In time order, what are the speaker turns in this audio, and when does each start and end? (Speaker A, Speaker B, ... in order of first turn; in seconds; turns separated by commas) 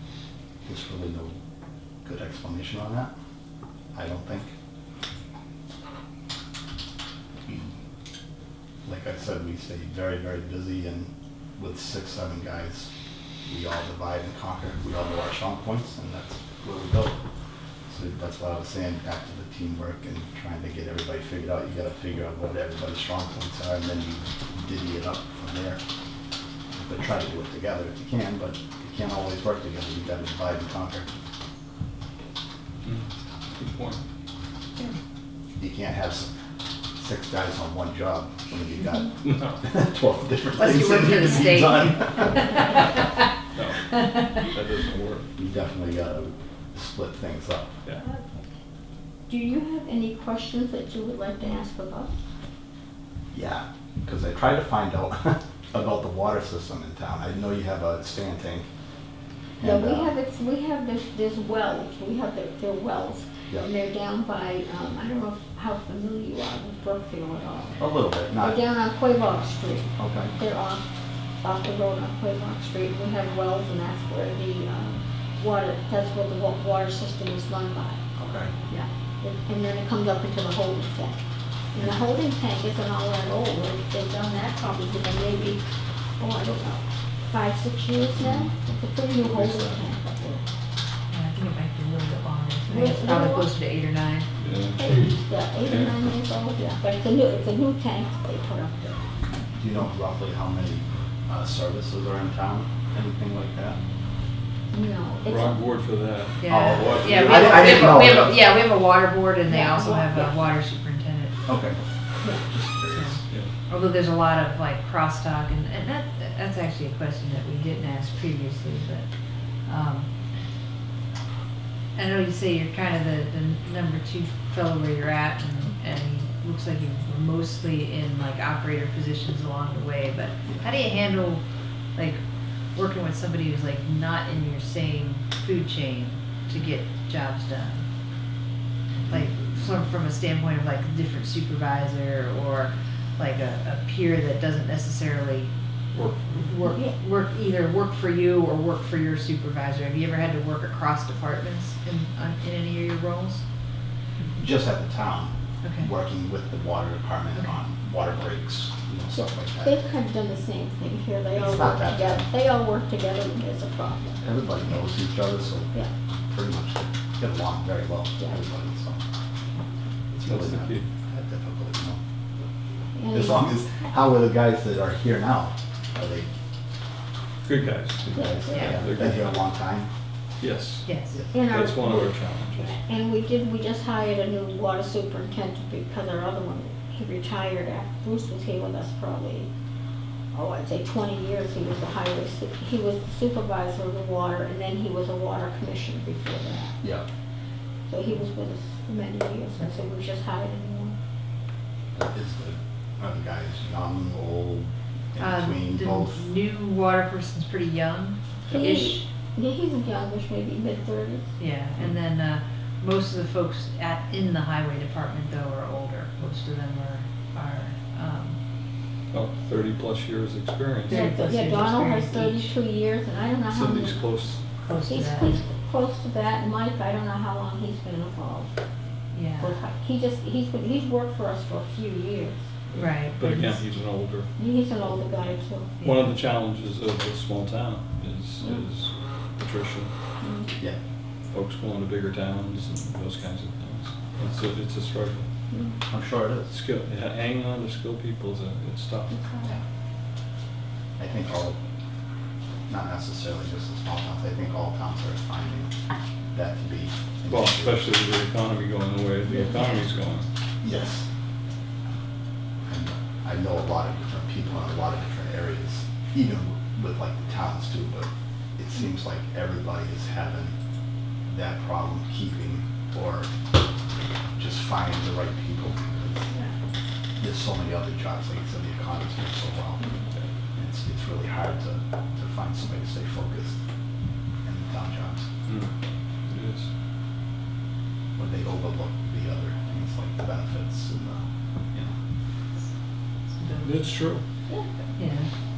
Speaker A: 0.7-1.4, Speaker A: 2.0-3.1, Speaker A: 3.9-4.5, Speaker A: 7.5-7.7, Speaker A: 8.8-12.9, Speaker A: 13.5-17.2, Speaker A: 17.9-25.8, Speaker A: 26.8-31.1, Speaker B: 32.8-34.0, Speaker A: 35.6-36.3, Speaker A: 37.0-42.7, Speaker B: 39.3-39.6, Speaker C: 40.5-43.3, Speaker B: 43.5-45.3, Speaker A: 45.4-47.8, Speaker D: 49.3-52.1, Speaker A: 53.3-58.7, Speaker A: 59.6-60.1, Speaker D: 59.6-70.9, Speaker A: 67.8-68.6, Speaker A: 70.0-70.3, Speaker D: 71.4-78.0, Speaker A: 78.2-78.5, Speaker D: 78.7-81.2, Speaker D: 81.7-85.6, Speaker D: 86.2-90.4, Speaker B: 88.2-88.5, Speaker B: 89.2-89.8, Speaker C: 91.1-94.3, Speaker D: 92.7-93.5, Speaker B: 94.4-94.9, Speaker D: 94.8-99.0, Speaker B: 95.6-95.9, Speaker A: 99.5-103.8, Speaker D: 104.7-105.6, Speaker B: 105.2-108.1, Speaker C: 106.4-111.3, Speaker A: 106.5-108.3, Speaker D: 109.5-110.4, Speaker A: 111.5-111.8, Speaker A: 112.3-113.2, Speaker C: 112.9-119.1, Speaker C: 119.7-120.1, Speaker C: 122.0-131.4, Speaker C: 132.0-132.2, Speaker C: 132.8-137.8, Speaker C: 139.1-145.5, Speaker B: 145.9-146.5, Speaker C: 146.4-153.4, Speaker A: 154.4-159.7, Speaker C: 155.6-155.9, Speaker D: 159.2-164.2, Speaker A: 161.3-162.3, Speaker A: 164.2-165.7, Speaker A: 166.3-169.0, Speaker D: 168.2-168.5, Speaker A: 170.1-172.0, Speaker B: 170.2-170.9, Speaker D: 172.9-173.6, Speaker A: 173.1-176.3, Speaker B: 177.4-179.3, Speaker A: 178.0-179.9, Speaker D: 178.2-178.7, Speaker C: 178.5-178.8, Speaker B: 180.4-180.9, Speaker C: 180.9-181.2, Speaker D: 181.3-189.5, Speaker B: 181.5-182.8, Speaker D: 190.3-196.8, Speaker D: 197.9-201.0, Speaker A: 201.9-206.2, Speaker C: 205.2-209.1, Speaker D: 208.5-211.3, Speaker C: 211.4-218.4, Speaker B: 219.1-221.0, Speaker C: 220.9-222.5, Speaker D: 220.9-224.1, Speaker B: 223.5-224.4, Speaker C: 224.6-225.4, Speaker D: 224.9-228.5, Speaker C: 229.1-229.6, Speaker D: 229.4-232.5, Speaker B: 232.7-234.3, Speaker C: 232.8-233.6, Speaker D: 234.4-235.7, Speaker C: 235.8-236.2, Speaker B: 235.8-239.9, Speaker D: 240.2-240.5, Speaker B: 241.3-245.3, Speaker D: 245.5-245.8, Speaker A: 245.9-246.5, Speaker B: 246.5-249.2, Speaker D: 249.1-249.5, Speaker A: 251.0-251.6, Speaker A: 252.7-255.7, Speaker A: 256.3-257.8, Speaker B: 257.3-260.3, Speaker D: 259.3-259.7, Speaker A: 260.6-261.1, Speaker A: 262.7-270.6, Speaker A: 271.3-273.3, Speaker A: 274.4-276.3, Speaker A: 277.2-279.8, Speaker D: 279.8-280.1, Speaker A: 280.6-283.6, Speaker A: 284.4-285.3, Speaker B: 286.3-286.7, Speaker A: 288.2-292.0, Speaker C: 293.3-293.9, Speaker B: 293.6-294.2, Speaker D: 294.5-294.9, Speaker C: 295.0-295.3